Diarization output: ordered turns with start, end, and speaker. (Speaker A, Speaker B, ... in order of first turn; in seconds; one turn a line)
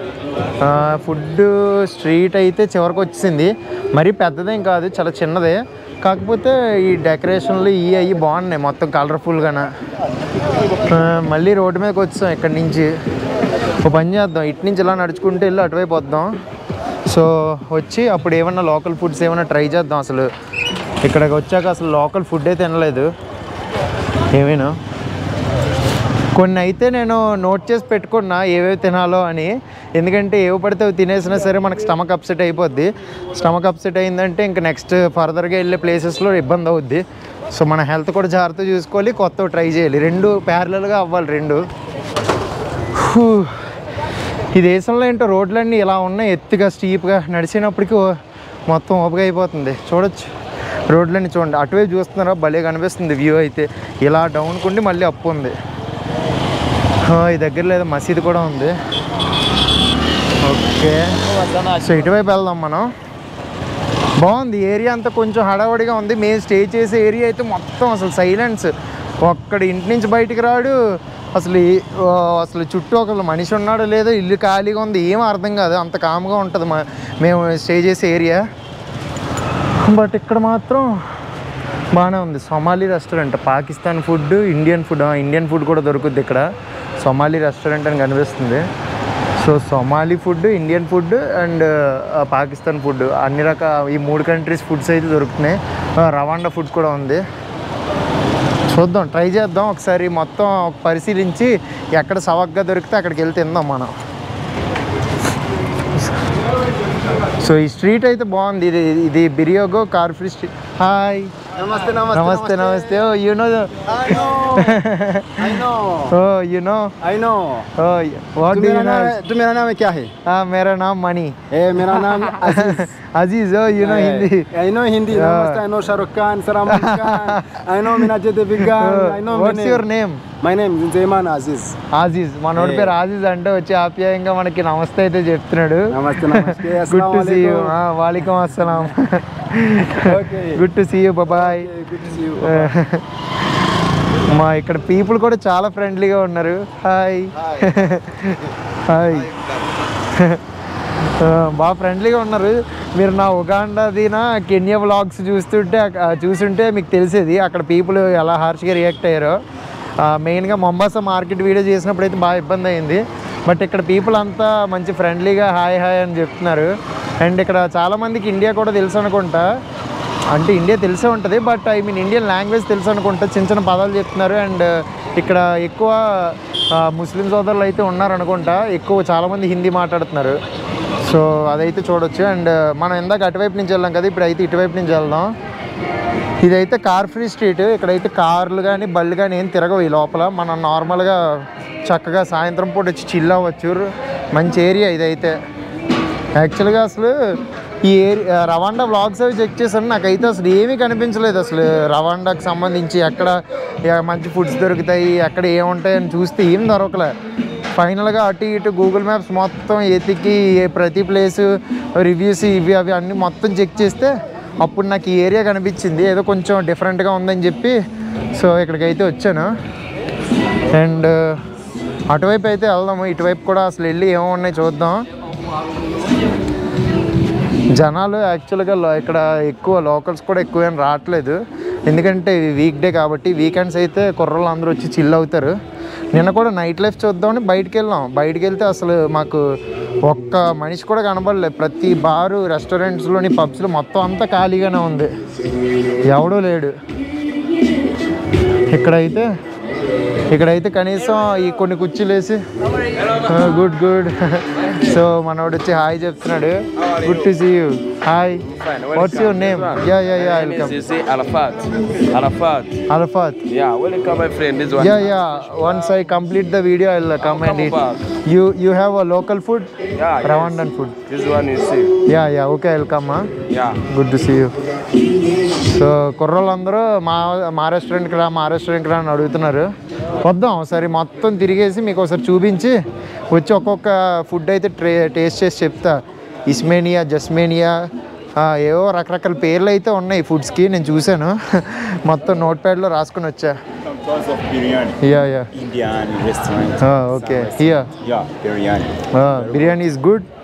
Speaker A: 0.6-9.7
Speaker A: 10.9-12.9
Speaker A: 13.8-16.3
Speaker A: 17.1-20.3
Speaker A: 21.0-23.1
Speaker A: 24.3-24.8
Speaker A: 26.3-41.6
Speaker A: 42.9-43.6
Speaker A: 44.5-48.1
Speaker A: 48.7-50.3
Speaker A: 50.9-55.5
Speaker A: 57.0-58.7
Speaker A: 60.4-61.2
Speaker B: 61.3-61.8
Speaker A: 61.7-62.9
Speaker A: 64.2-78.4
Speaker A: 79.8-80.9
Speaker A: 81.9-86.5
Speaker A: 87.0-88.7
Speaker A: 89.4-97.2
Speaker A: 98.7-103.9
Speaker A: 107.4-111.3
Speaker C: 111.5-113.0
Speaker A: 112.1-115.5
Speaker C: 113.9-114.8
Speaker C: 115.4-116.1
Speaker A: 116.1-116.9
Speaker C: 117.0-117.7
Speaker A: 117.8-119.2
Speaker C: 118.5-120.1
Speaker A: 120.2-121.4
Speaker C: 121.5-122.9
Speaker A: 122.0-124.5
Speaker C: 123.8-129.8
Speaker A: 125.1-125.6
Speaker A: 126.7-130.2
Speaker C: 130.4-131.8
Speaker A: 131.9-141.7
Speaker C: 132.5-132.9
Speaker C: 135.9-137.8
Speaker C: 140.0-140.6
Speaker C: 141.3-142.8
Speaker A: 142.4-143.0
Speaker A: 144.3-149.3
Speaker A: 150.1-150.4
Speaker A: 151.2-159.4
Speaker A: 160.0-169.5
Speaker A: 170.3-180.4
Speaker A: 181.0-185.3
Speaker A: 186.4-195.3
Speaker A: 196.4-207.1
Speaker A: 207.8-217.8
Speaker A: 218.3-219.5
Speaker A: 220.7-221.4
Speaker A: 222.1-225.0
Speaker A: 227.7-235.6
Speaker A: 236.1-239.4
Speaker A: 240.0-245.1
Speaker A: 246.1-246.7
Speaker A: 248.7-249.3
Speaker A: 250.3-252.4
Speaker A: 253.2-260.8
Speaker B: 258.5-262.8
Speaker A: 262.9-263.4
Speaker B: 263.5-265.3
Speaker A: 264.8-271.0
Speaker B: 267.2-268.0
Speaker B: 270.0-271.9
Speaker A: 272.1-273.3
Speaker B: 273.5-273.8
Speaker A: 273.9-274.5
Speaker A: 275.6-279.7
Speaker A: 280.2-282.8
Speaker A: 283.3-293.6
Speaker D: 293.8-299.8
Speaker A: 295.0-295.5
Speaker A: 296.8-297.9
Speaker A: 299.1-300.3